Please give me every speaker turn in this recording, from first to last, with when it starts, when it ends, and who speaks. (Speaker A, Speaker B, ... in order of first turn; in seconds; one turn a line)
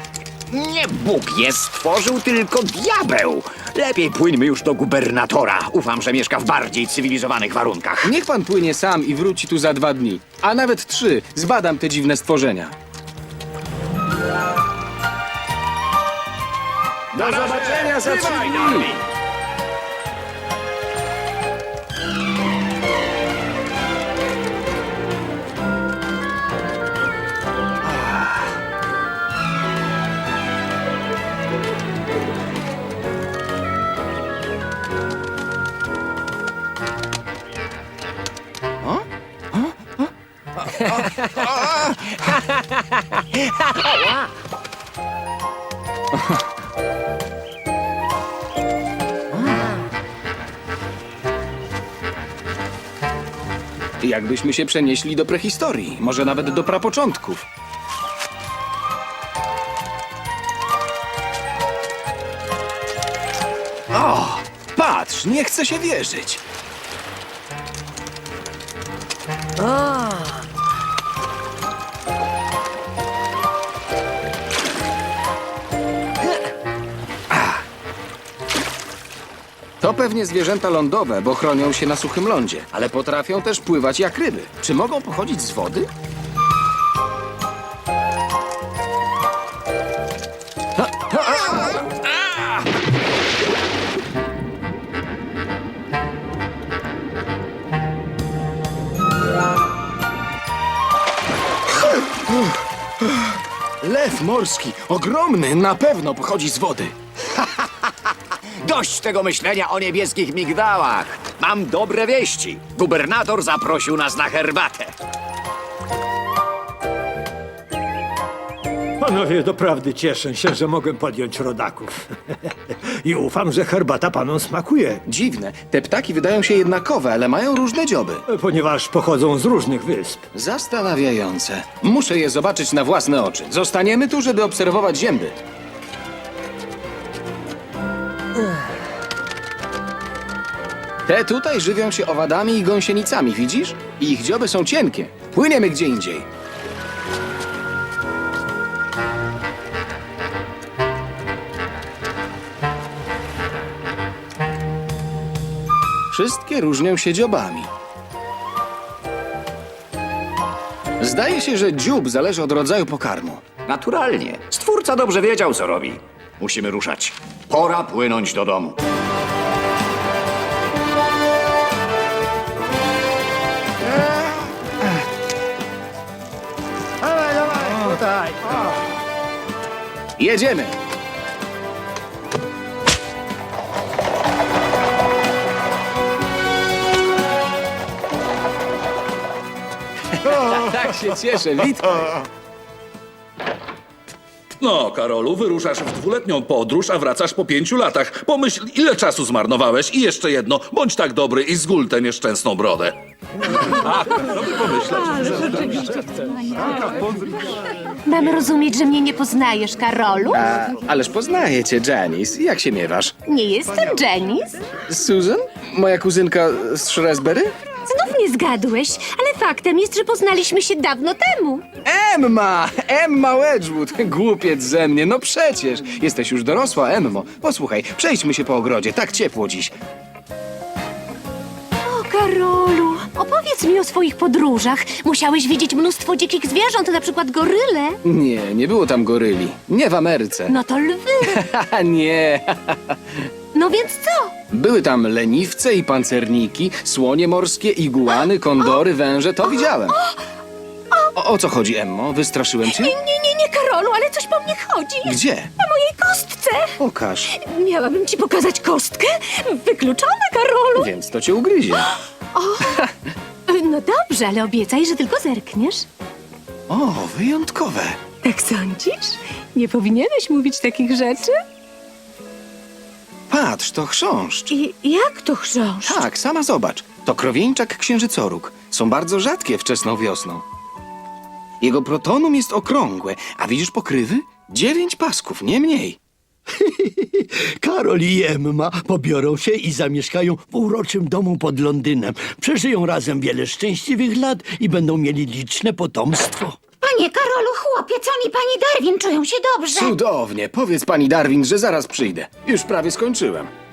Speaker A: 0.5-8.1
Speaker B: 8.0-12.7
Speaker B: 17.1-19.0
Speaker B: 27.9-28.2
Speaker B: 38.8-42.2
Speaker B: 43.6-44.0
Speaker B: 46.1-46.4
Speaker B: 49.3-49.7
Speaker B: 54.0-57.5
Speaker B: 63.9-66.4
Speaker B: 77.3-77.6
Speaker B: 79.8-85.9
Speaker B: 90.8-92.0
Speaker B: 101.9-102.4
Speaker B: 103.8-106.9
Speaker A: 108.6-114.9
Speaker C: 119.0-122.1
Speaker C: 122.8-125.0
Speaker B: 125.0-128.2
Speaker C: 128.3-130.2
Speaker B: 130.3-135.4
Speaker B: 141.1-146.2
Speaker B: 156.1-157.7
Speaker B: 161.0-163.5
Speaker A: 163.6-168.8
Speaker C: 177.2-178.6
Speaker B: 180.2-180.8
Speaker B: 190.1-192.2
Speaker D: 194.6-203.0
Speaker D: 203.5-206.2
Speaker E: 205.4-205.9
Speaker E: 208.0-210.5
Speaker B: 210.3-213.2
Speaker E: 213.2-214.6
Speaker B: 214.9-217.6
Speaker E: 217.9-221.7
Speaker B: 221.8-229.7
Speaker E: 231.8-238.0
Speaker B: 238.0-240.5
Speaker E: 240.5-241.4
Speaker B: 241.3-243.2
Speaker E: 243.5-244.3
Speaker B: 244.5-250.0
Speaker E: 249.6-250.2
Speaker B: 251.1-252.9
Speaker E: 252.6-256.8
Speaker B: 255.0-255.5
Speaker B: 256.8-257.3
Speaker E: 257.3-260.9
Speaker B: 260.7-261.9
Speaker E: 262.3-262.8
Speaker E: 263.5-265.9
Speaker B: 266.7-268.0
Speaker E: 268.2-271.4
Speaker B: 273.3-274.5
Speaker E: 274.5-276.0
Speaker B: 275.8-280.4
Speaker B: 281.6-286.0
Speaker F: 286.5-296.6
Speaker G: 296.8-299.9
Speaker B: 299.7-303.5